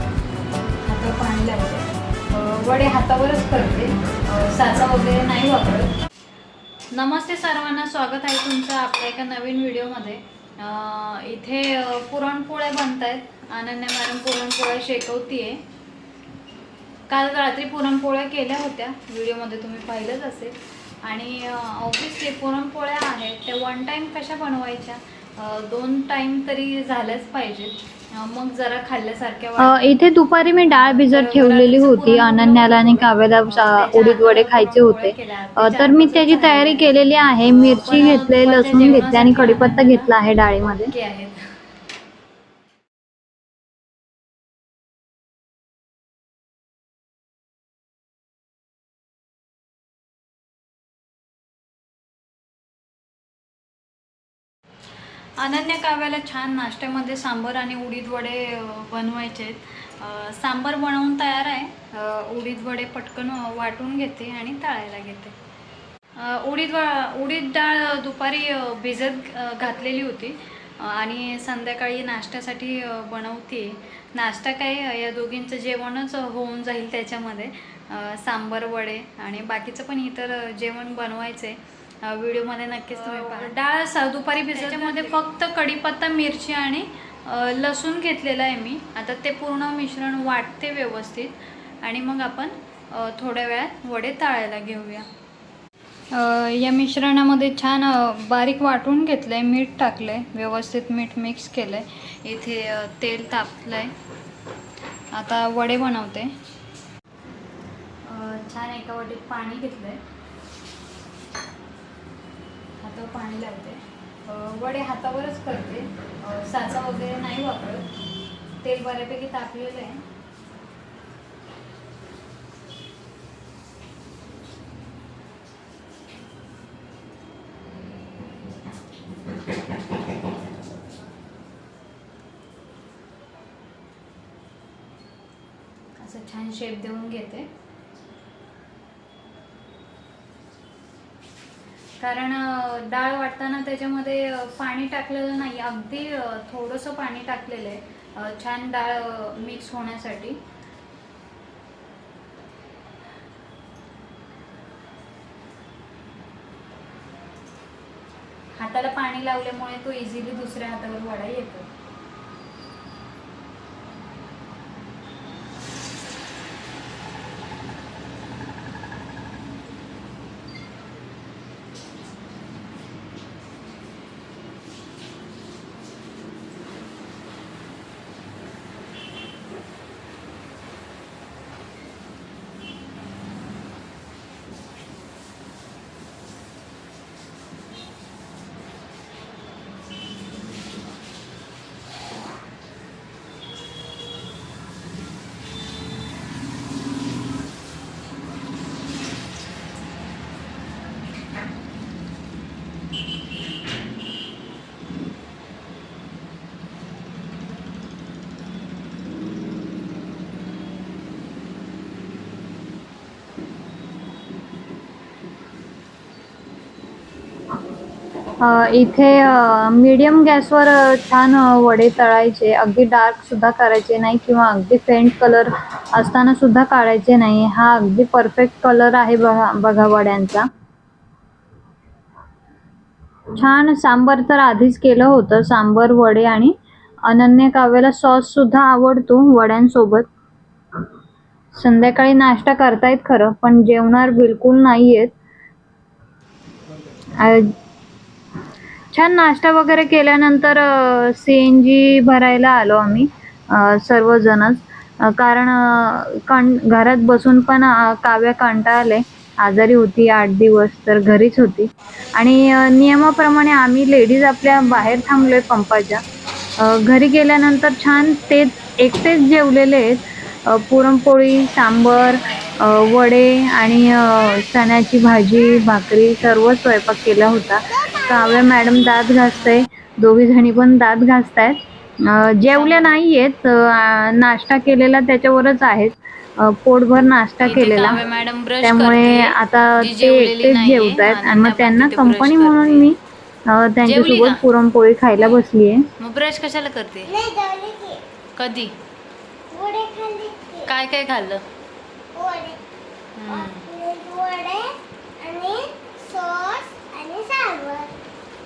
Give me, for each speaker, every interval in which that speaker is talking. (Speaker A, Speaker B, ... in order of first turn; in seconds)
Speaker A: 0.8-5.9, 6.9-15.6, 17.1-30.0, 30.7-40.1, 40.9-41.4, 55.4-65.3, 66.2-95.1, 97.7-103.9, 105.2-106.3, 108.0-110.0, 112.8-117.9, 118.6-120.0, 136.0-137.5, 142.0-150.4, 158.6-161.7, 282.6-283.0, 287.4-292.9, 293.8-294.4, 296.0-297.2, 298.4-298.8, 300.6-301.4, 303.2-303.7
Speaker B: 29.6-40.9, 82.9-83.5, 84.5-85.2, 96.2-97.7, 218.4-230.5, 233.3-236.5, 237.1-240.1, 241.5-245.1, 247.2-247.5, 248.9-266.0, 266.6-288.0, 288.6-293.0, 293.5-295.9
Speaker C: 297.1-298.0, 299.5-300.7, 302.1-302.6, 303.3-308.0